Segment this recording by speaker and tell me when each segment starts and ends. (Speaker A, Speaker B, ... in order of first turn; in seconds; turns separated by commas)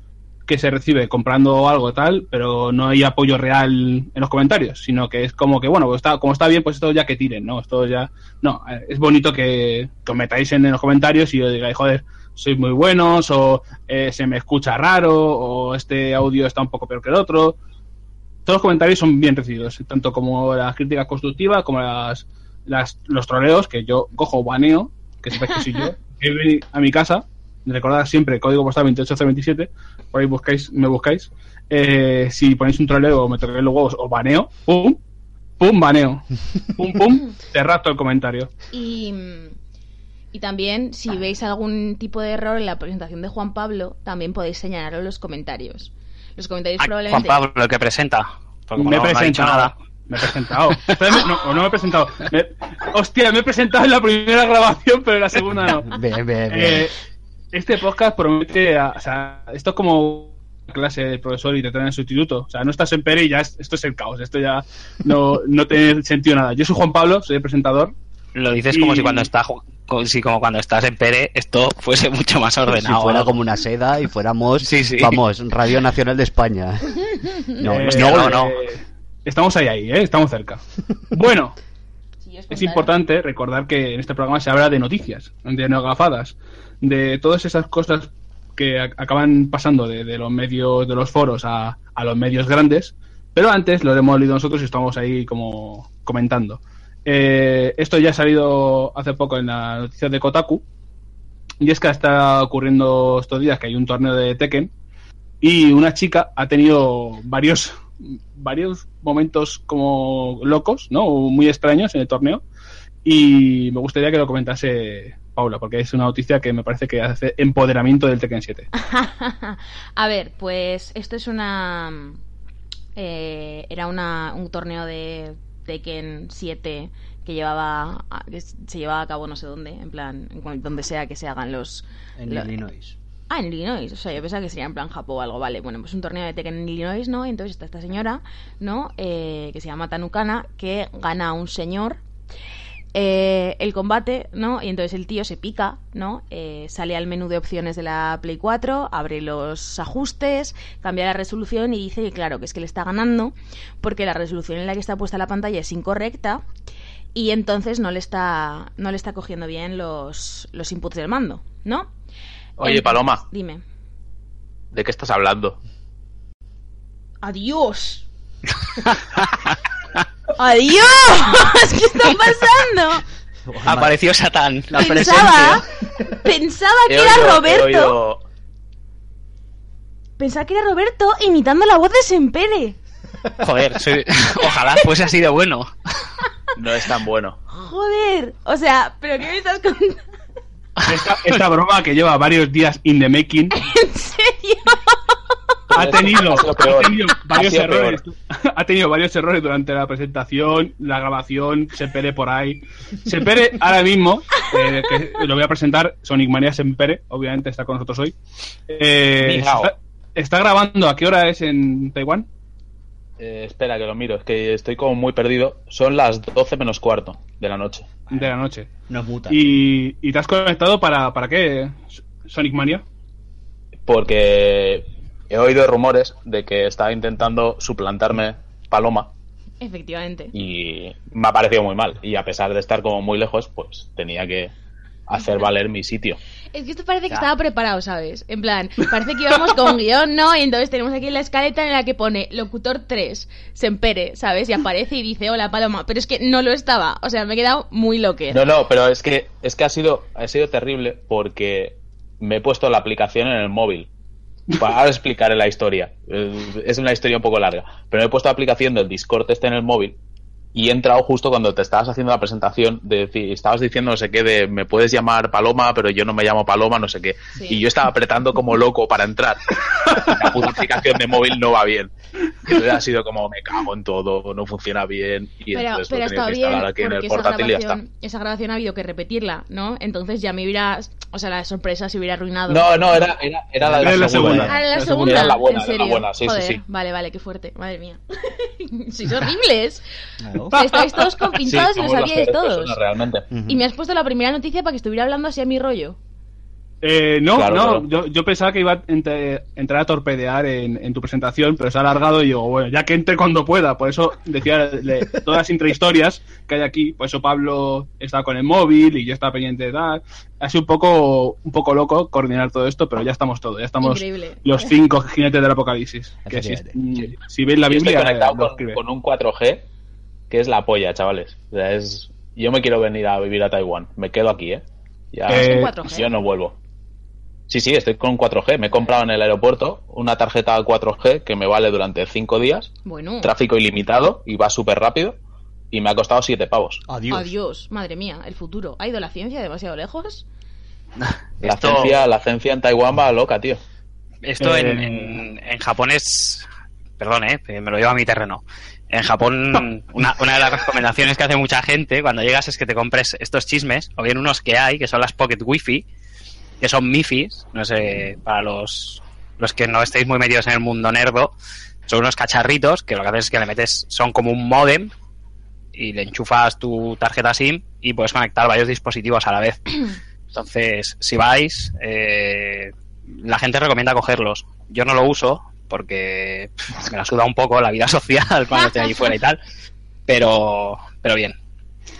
Speaker A: 0.5-17.6, Speaker A: 18.4-35.0, Speaker A: 35.6-38.5, Speaker B: 38.7-39.5, Speaker B: 40.3-47.4, Speaker C: 46.8-49.7, Speaker A: 48.8-55.9, Speaker D: 55.6-56.9, Speaker A: 56.5-56.9, Speaker A: 57.5-67.9, Speaker C: 68.3-73.3, Speaker A: 68.7-69.3, Speaker D: 72.7-78.4, Speaker C: 74.6-75.2, Speaker A: 77.7-80.6, Speaker C: 77.9-78.5, Speaker A: 81.1-81.6, Speaker B: 82.2-82.9, Speaker A: 82.5-100.6, Speaker A: 101.6-104.7, Speaker A: 105.4-112.4, Speaker A: 113.0-118.7, Speaker B: 118.8-122.2, Speaker B: 123.0-132.5, Speaker D: 132.2-133.0, Speaker B: 133.3-142.0, Speaker B: 142.9-156.4, Speaker B: 157.1-161.9, Speaker E: 162.6-163.2, Speaker B: 162.6-163.6, Speaker E: 164.7-165.6, Speaker B: 167.2-168.1, Speaker B: 170.4-173.1, Speaker D: 173.5-174.0, Speaker C: 173.7-175.6, Speaker D: 174.7-176.0, Speaker B: 174.7-178.0, Speaker E: 176.9-178.2, Speaker B: 180.2-182.8, Speaker C: 183.4-185.7, Speaker E: 186.6-187.4, Speaker B: 187.5-190.0, Speaker A: 190.9-193.6, Speaker B: 193.6-195.0, Speaker E: 195.7-198.0, Speaker A: 195.7-208.2, Speaker A: 208.7-212.3, Speaker E: 209.2-209.7, Speaker E: 213.2-217.9, Speaker A: 218.1-218.7, Speaker D: 218.9-219.4, Speaker A: 219.3-222.8, Speaker E: 223.9-229.1, Speaker B: 229.6-230.3, Speaker E: 230.3-234.5, Speaker E: 235.1-236.2, Speaker B: 235.2-235.5, Speaker B: 236.5-248.4, Speaker E: 248.3-253.9, Speaker E: 254.5-260.0, Speaker E: 260.5-271.9, Speaker B: 267.4-267.7, Speaker E: 272.4-277.8, Speaker B: 275.5-283.1, Speaker E: 282.5-286.6, Speaker D: 283.6-284.4, Speaker A: 283.8-285.4, Speaker B: 284.4-289.8, Speaker D: 290.2-290.6, Speaker B: 290.5-292.8, Speaker A: 290.8-291.0, Speaker E: 291.4-293.3, Speaker D: 293.3-293.6, Speaker B: 293.4-296.0, Speaker A: 296.8-318.8, Speaker E: 297.3-297.9, Speaker B: 313.8-314.7, Speaker D: 316.3-316.8, Speaker E: 317.7-319.7, Speaker E: 320.3-326.6, Speaker A: 325.3-325.7, Speaker B: 325.3-326.2, Speaker E: 327.5-335.2, Speaker B: 332.9-333.4, Speaker E: 335.7-336.8, Speaker D: 336.9-337.3, Speaker B: 337.1-340.2, Speaker C: 341.4-342.0, Speaker E: 341.4-343.6, Speaker C: 344.2-346.5, Speaker A: 344.4-345.2, Speaker C: 347.0-355.9, Speaker C: 356.6-361.3, Speaker C: 361.9-364.9, Speaker C: 365.7-379.4, Speaker B: 378.6-378.9, Speaker C: 380.1-381.4